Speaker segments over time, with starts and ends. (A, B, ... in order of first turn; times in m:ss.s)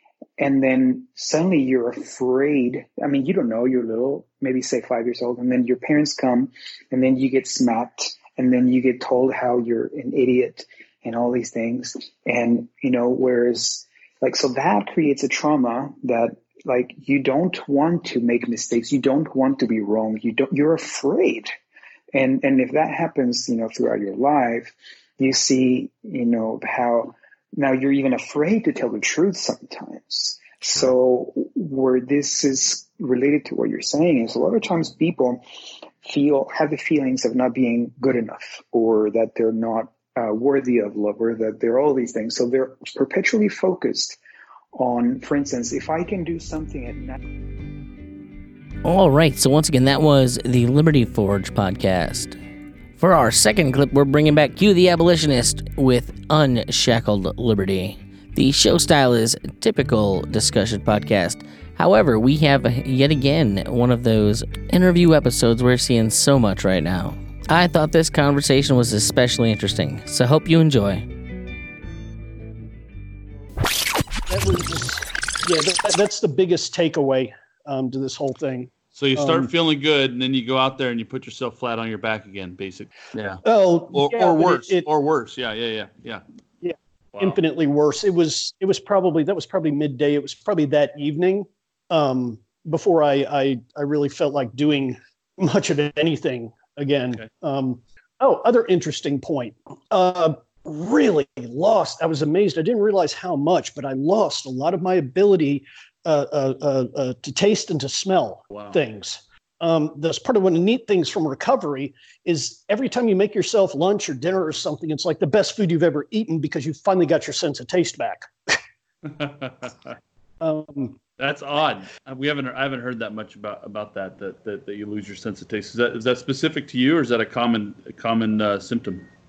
0:00.4-0:21.5 A
0:22.1-0:35.4 A
0:36.0-0:44.2 A
0:44.7-0:47.2 A
0:48.8-0:52.4 B
0:53.0-1:11.0 B
1:14.3-1:19.5 C
1:18.9-1:26.2 D
1:23.4-1:24.8 C
1:26.6-1:58.3 C
1:27.1-1:27.4 D
1:48.5-1:48.8 D
1:59.0-1:59.9 D
2:00.4-2:01.0 C
2:01.2-2:09.1 D